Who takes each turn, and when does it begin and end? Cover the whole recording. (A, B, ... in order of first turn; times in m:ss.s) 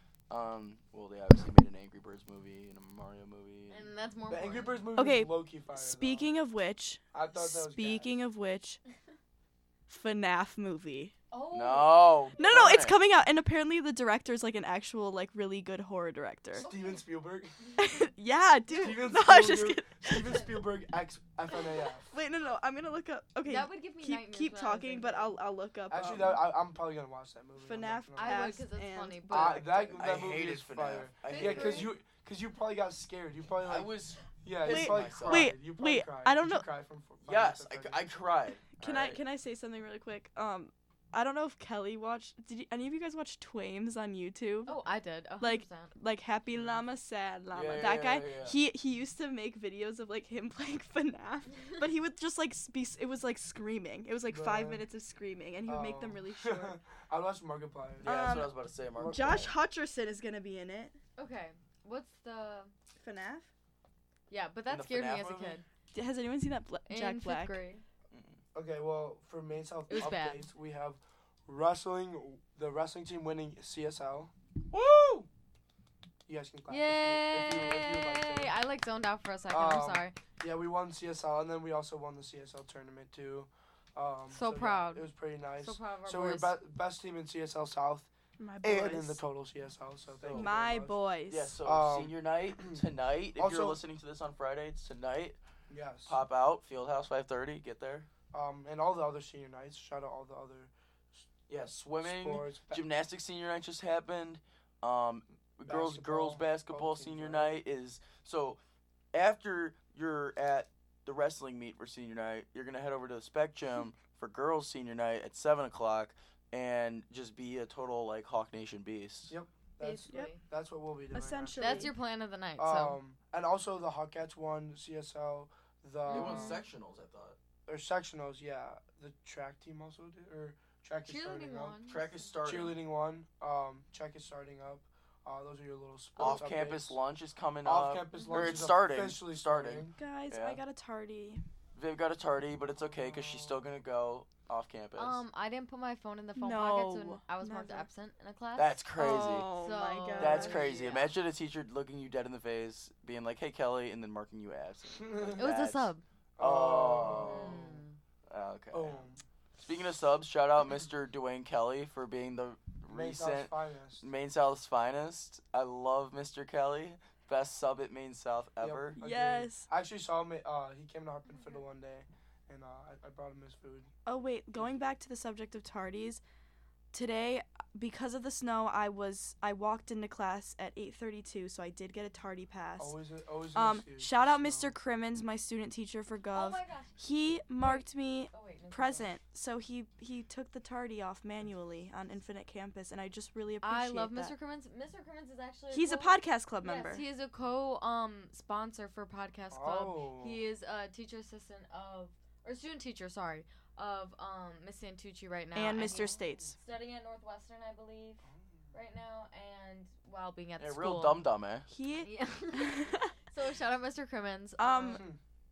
0:00.3-0:03.9 A
0:03.7-0:04.9 B
0:04.3-0:06.4 C
0:05.0-0:08.8 D
0:07.1-0:08.2 C
0:09.9-0:11.1 D
0:11.3-0:12.7 B
0:11.5-0:13.0 A
0:12.4-0:16.7 D
0:16.6-0:17.8 C
0:16.6-0:17.0 B
0:17.6-0:17.9 B
0:17.8-0:20.5 D
0:18.7-0:22.1 C
0:22.1-0:26.4 D
0:23.5-0:25.4 B
0:25.9-0:28.6 C
0:27.6-0:29.7 D
0:28.2-0:30.2 B
0:29.3-0:38.1 C
0:30.0-0:31.9 A
0:31.3-0:31.9 B
0:33.6-0:35.6 A
0:34.6-0:36.6 D
0:37.2-0:39.2 A
0:38.8-0:44.8 D
0:44.6-0:45.9 B
0:45.4-0:56.8 D
0:47.5-0:48.6 A
0:54.3-0:54.8 C
0:55.7-0:58.4 C
0:58.0-0:59.6 A
0:58.0-1:01.0 D
0:58.9-0:59.5 C
1:01.2-1:02.7 B
1:03.0-1:03.5 D
1:04.3-1:05.6 B
1:04.7-1:05.6 A
1:05.9-1:07.6 D
1:06.9-1:07.8 B
1:08.1-1:08.4 A
1:08.5-1:15.3 C
1:09.9-1:10.5 B
1:16.3-1:18.6 C
1:16.7-1:20.2 B
1:19.5-1:28.1 C
1:24.3-1:25.1 B
1:25.6-1:26.6 B
1:28.4-1:29.2 D
1:28.6-1:31.0 C
1:30.2-1:30.6 A
1:30.3-1:31.6 D
1:31.3-1:35.4 A
1:31.6-1:32.8 C
1:33.4-1:33.8 C
1:35.7-1:36.2 C
1:36.1-1:38.1 A
1:38.3-1:41.3 C
1:41.5-1:48.6 A
1:42.0-1:42.8 C
1:45.7-1:47.6 C
1:49.1-1:59.4 A
1:59.3-2:01.9 C
1:59.8-2:00.4 B
2:01.1-2:01.9 D
2:01.6-2:03.0 B
2:02.6-2:06.6 C
2:06.1-2:06.7 B
2:06.1-2:07.4 A
2:07.7-2:11.8 C
2:11.1-2:12.3 B
2:11.9-2:12.8 A
2:12.4-2:17.0 C
2:16.2-2:20.6 A
2:17.6-2:20.0 C
2:18.1-2:18.7 B
2:20.0-2:21.4 D
2:21.8-2:25.2 A
2:22.8-2:23.6 C
2:25.0-2:28.8 B
2:26.4-2:27.9 D
2:28.6-2:29.5 A
2:29.0-2:30.7 D
2:29.6-2:31.1 B
2:30.2-2:39.0 A
2:34.9-2:35.5 C
2:35.4-2:36.0 B
2:36.4-2:37.8 C
2:37.2-2:38.0 B
2:38.7-2:39.2 C
2:39.6-2:49.0 A
2:42.9-2:44.1 C
2:48.6-2:53.9 C
2:49.0-2:49.7 D
2:51.3-2:51.6 B
2:54.1-2:56.2 D
2:56.9-3:03.0 D
3:02.8-3:04.7 C
3:03.5-3:14.3 D
3:06.3-3:07.0 B
3:07.6-3:09.1 B
3:13.6-3:31.2 B
3:15.7-3:17.0 D
3:19.5-3:20.4 C
3:25.5-3:26.6 D
3:26.3-3:26.5 C
3:28.2-3:28.6 C
3:30.6-3:31.7 A
3:31.7-3:33.1 D
3:32.0-3:35.1 B
3:34.6-3:35.1 D
3:34.9-3:35.2 C